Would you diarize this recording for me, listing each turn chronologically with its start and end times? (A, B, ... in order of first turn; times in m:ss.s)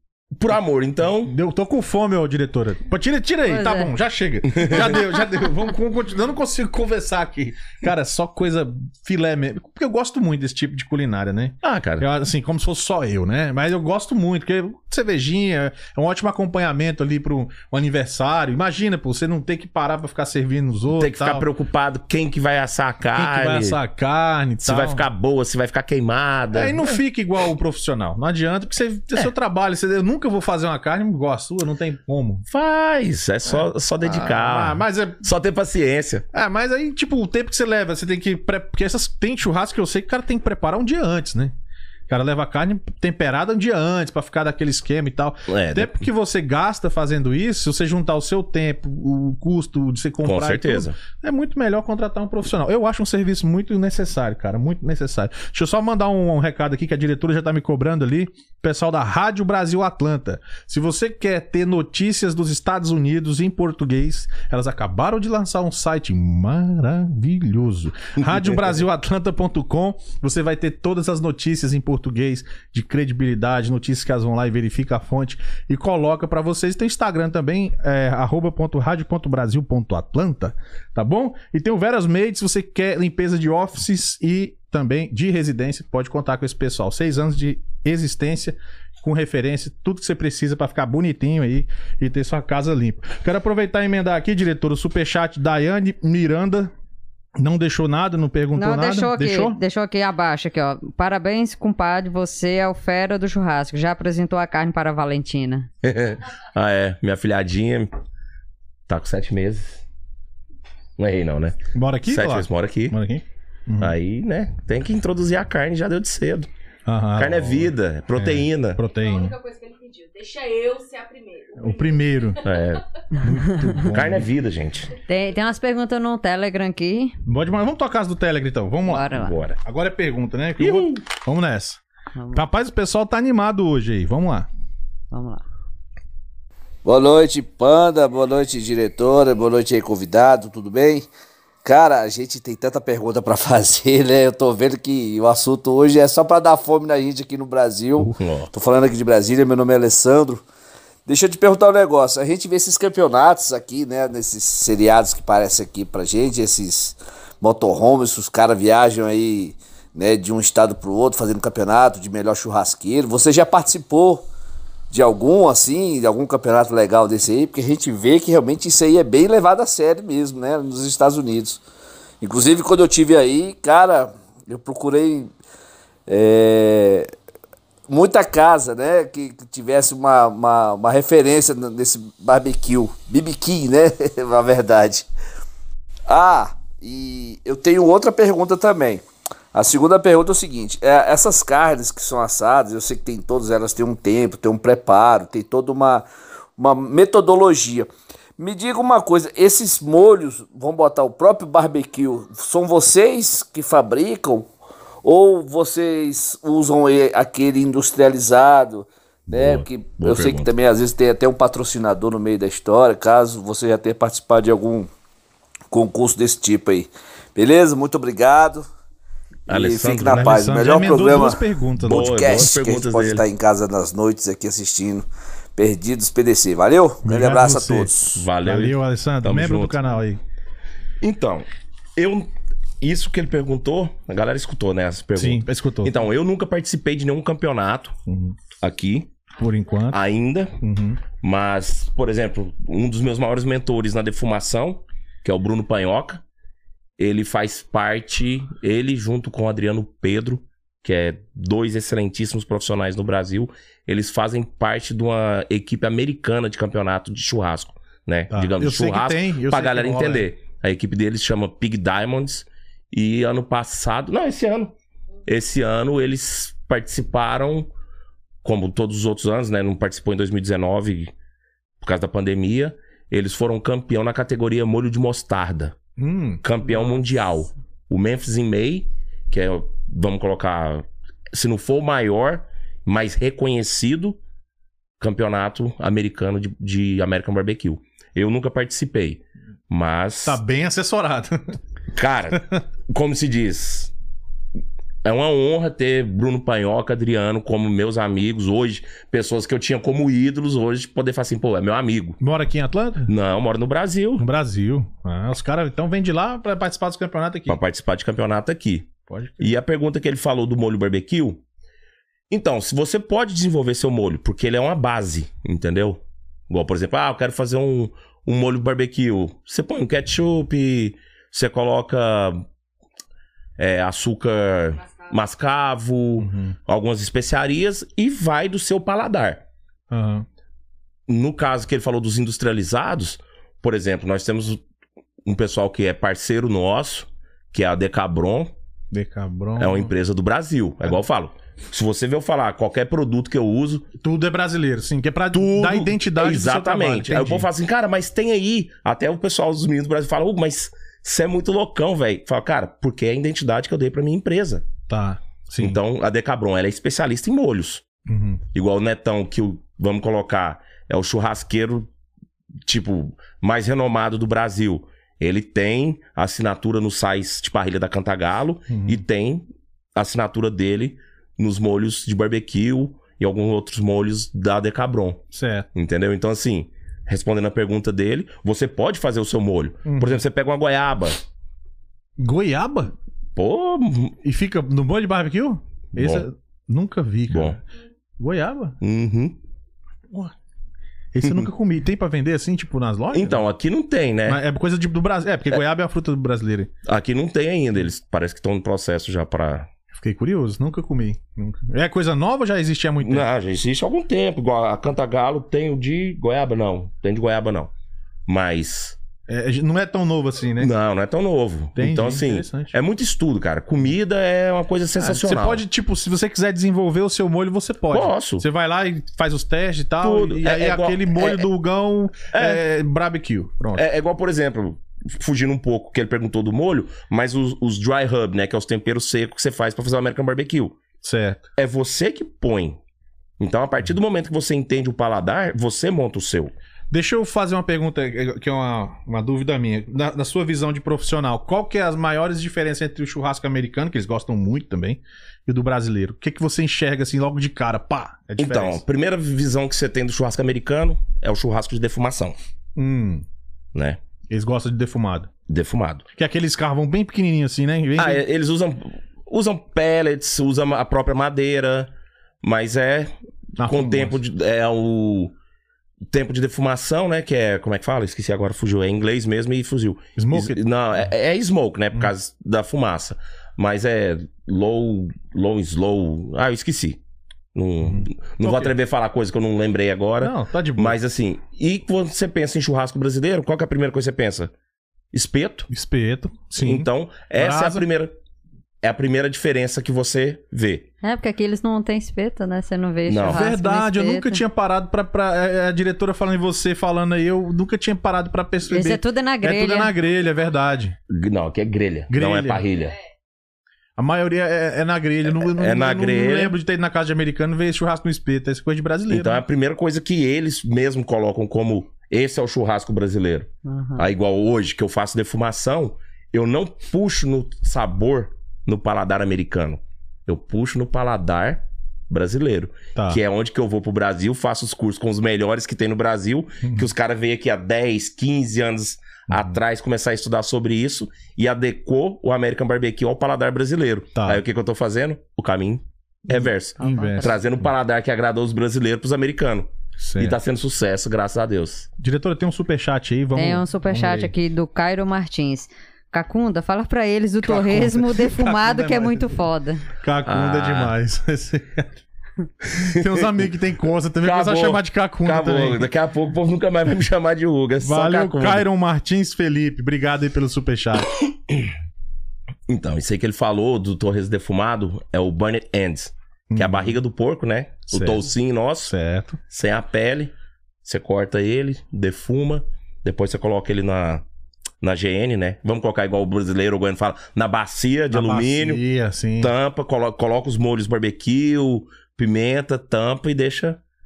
0:00.4-0:01.3 A
0:01.2-0:21.5 B
0:03.5-0:03.9 C
0:04.5-0:05.0 A
0:11.6-0:12.1 A
0:20.9-0:23.8 A
0:23.1-0:25.1 B
0:24.6-0:27.0 A
0:26.5-0:32.5 B
0:32.5-0:36.3 A
0:33.5-0:35.2 B
0:36.3-0:41.5 B
0:42.1-1:36.7 B
0:45.5-0:46.1 A
0:50.2-0:51.0 A
1:08.2-1:08.7 A
1:37.4-1:39.6 B
1:38.6-1:45.7 C
1:45.8-1:47.9 A
1:48.9-1:49.8 A
1:51.0-1:53.0 A
1:51.7-1:53.9 B
1:53.8-1:56.5 A
1:56.9-1:59.4 B
1:57.2-1:58.8 A
1:58.8-2:02.8 D
2:01.6-2:02.4 B
2:02.4-2:02.8 A
2:03.2-2:04.3 B
2:03.8-2:04.9 A
2:05.1-2:07.2 C
2:07.3-2:11.8 B
2:08.9-2:09.4 C
2:09.1-2:09.6 A
2:10.6-2:11.0 A
2:12.2-2:12.4 C
2:12.3-2:14.5 B
2:15.1-2:15.4 C
2:16.8-2:21.1 E
2:21.6-2:30.4 E
2:28.2-2:28.5 A
2:31.1-2:44.2 E
2:44.9-2:51.6 E
2:52.2-2:55.3 E
2:56.1-2:57.1 E
2:57.9-3:05.1 E
3:06.1-3:24.5 E
3:25.0-3:34.9 E
3:29.3-3:30.5 A
3:35.7-3:38.7 E
3:39.5-3:48.2 E
3:39.5-3:40.7 A
3:40.1-3:42.2 B
3:41.8-3:43.2 A
3:47.0-3:50.2 B
3:48.2-3:49.8 A
3:51.0-3:58.0 A
3:55.2-3:56.0 B
3:58.1-3:58.4 B
3:58.6-3:59.1 A
3:59.4-4:00.0 B
3:59.9-4:00.6 A
4:00.6-4:01.0 B
4:01.2-4:06.2 A
4:07.0-4:24.7 A
4:18.3-4:20.3 B
4:25.3-4:27.7 A
4:28.4-4:31.1 A
4:31.8-4:35.8 A
4:36.0-4:36.4 B
4:36.4-4:44.2 A
4:45.0-4:50.4 A
4:50.2-4:51.6 B
4:51.9-4:53.9 A
4:52.4-4:52.6 B
4:55.0-5:02.2 A
5:02.2-5:03.1 B
5:03.1-5:04.2 A
5:04.2-5:07.6 B
5:07.5-5:11.4 A
5:09.1-5:09.5 B
5:12.3-5:22.4 A
5:23.6-5:29.4 A
5:26.2-5:26.6 B
5:29.9-5:30.3 B
5:31.1-5:34.6 A
5:35.2-5:38.5 A
5:38.9-5:39.9 B
5:39.6-5:43.9 A
5:44.0-5:47.5 B
5:45.3-5:54.7 A
5:54.9-5:55.8 B
5:55.6-5:57.8 A
5:58.1-5:58.4 B
5:58.5-6:01.9 A
6:02.7-6:15.2 A
6:08.7-6:09.0 B
6:15.3-6:15.7 B
6:15.7-6:21.2 A
6:19.8-6:20.2 B
6:22.2-6:22.9 B
6:23.4-6:24.2 A
6:24.2-6:27.6 B
6:26.0-6:26.3 A
6:27.3-6:27.6 A
6:28.2-6:28.8 B
6:28.8-6:29.4 A
6:31.1-6:33.4 B
6:31.2-6:31.5 A
6:33.1-6:34.4 A
6:34.3-6:36.7 B
6:36.8-6:39.7 A
6:40.0-6:43.2 B
6:43.0-6:47.7 A
6:48.3-6:49.0 A
6:49.3-6:50.7 B
6:50.6-6:55.6 A
6:51.8-6:52.8 B
6:55.0-7:03.8 B
6:57.9-6:58.4 A
7:00.0-7:01.5 A
7:02.3-7:02.6 A
7:03.8-7:10.8 A
7:11.0-7:11.4 B
7:11.6-7:12.8 A
7:13.4-7:16.5 A
7:16.9-7:28.8 B
7:28.4-7:32.4 A
7:32.8-7:33.2 B
7:33.7-7:34.0 A
7:34.3-7:35.3 B
7:35.5-7:36.1 A
7:36.2-7:38.2 B
7:38.0-7:41.9 A
7:42.4-7:45.4 A
7:43.6-7:44.2 B
7:46.1-7:57.0 A
7:50.2-7:50.6 B
7:57.5-8:04.5 A
7:57.8-7:58.7 B
8:00.2-8:01.0 B
8:05.1-8:05.7 A
8:05.7-8:07.8 B
8:06.6-8:08.2 A
8:08.8-8:10.9 A
8:11.0-8:14.4 C
8:13.1-8:13.4 A
8:13.2-8:21.0 B
8:18.7-8:19.9 C
8:21.1-8:23.0 A
8:22.1-8:22.7 B
8:24.0-8:29.4 B
8:25.3-8:26.6 A
8:29.1-9:01.9 A
8:33.7-8:34.1 C
8:43.0-8:43.2 B
8:46.6-8:46.9 B
8:54.2-8:54.4 B
8:56.3-8:57.3 B
8:56.8-8:57.4 C
9:00.0-9:00.4 B
9:02.0-9:04.3 B
9:03.4-9:09.8 C
9:07.4-9:09.3 B
9:10.0-9:11.9 B
9:10.2-9:10.9 A
9:12.7-9:15.8 B
9:12.8-9:13.5 A
9:14.2-9:18.6 A
9:17.8-9:21.1 B
9:22.7-9:28.9 A
9:26.5-9:27.0 B
9:27.9-9:28.3 B
9:28.8-9:29.4 B
9:29.5-9:30.3 A
9:30.8-9:34.2 A
9:34.8-9:38.8 A
9:38.1-9:39.5 B
9:39.4-9:43.8 A